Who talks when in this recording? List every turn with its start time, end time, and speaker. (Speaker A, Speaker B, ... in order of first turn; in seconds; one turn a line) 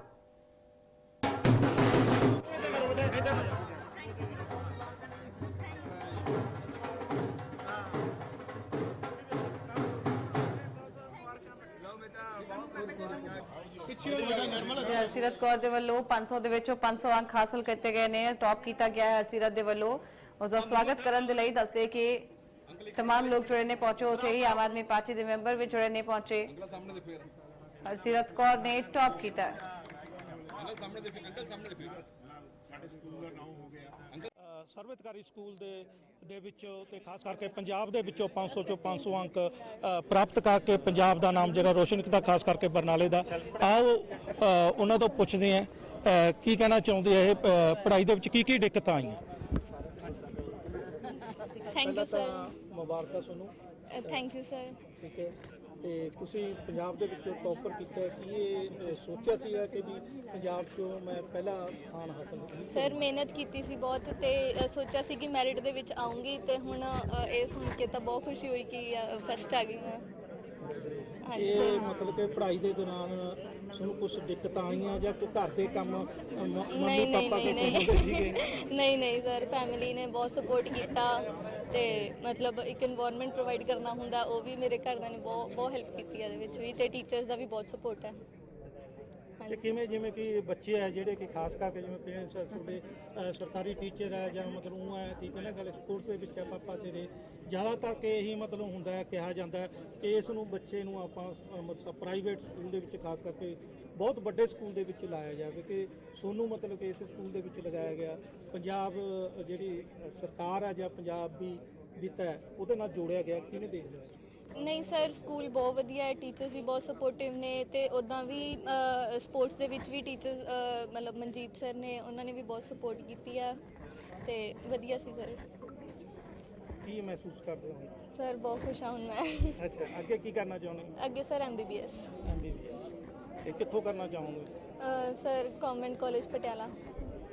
Speaker A: 14.0-22.3
Speaker B: 14.2-14.7
Speaker A: 22.9-26.5
Speaker A: 27.8-29.5
Speaker B: 34.4-49.2
Speaker B: 51.5-54.2
Speaker C: 51.7-52.5
Speaker C: 53.9-54.8
Speaker B: 55.0-63.0
Speaker C: 62.7-70.0
Speaker C: 71.3-71.9
Speaker B: 71.3-78.4
Speaker C: 76.7-88.1
Speaker B: 89.5-114.1
Speaker C: 114.5-123.5
Speaker C: 124.2-125.4
Speaker B: 126.8-127.9
Speaker C: 128.2-129.7
Speaker B: 129.6-130.9
Speaker C: 131.0-132.1
Speaker B: 132.2-132.9
Speaker B: 133.4-134.5
Speaker C: 134.8-136.7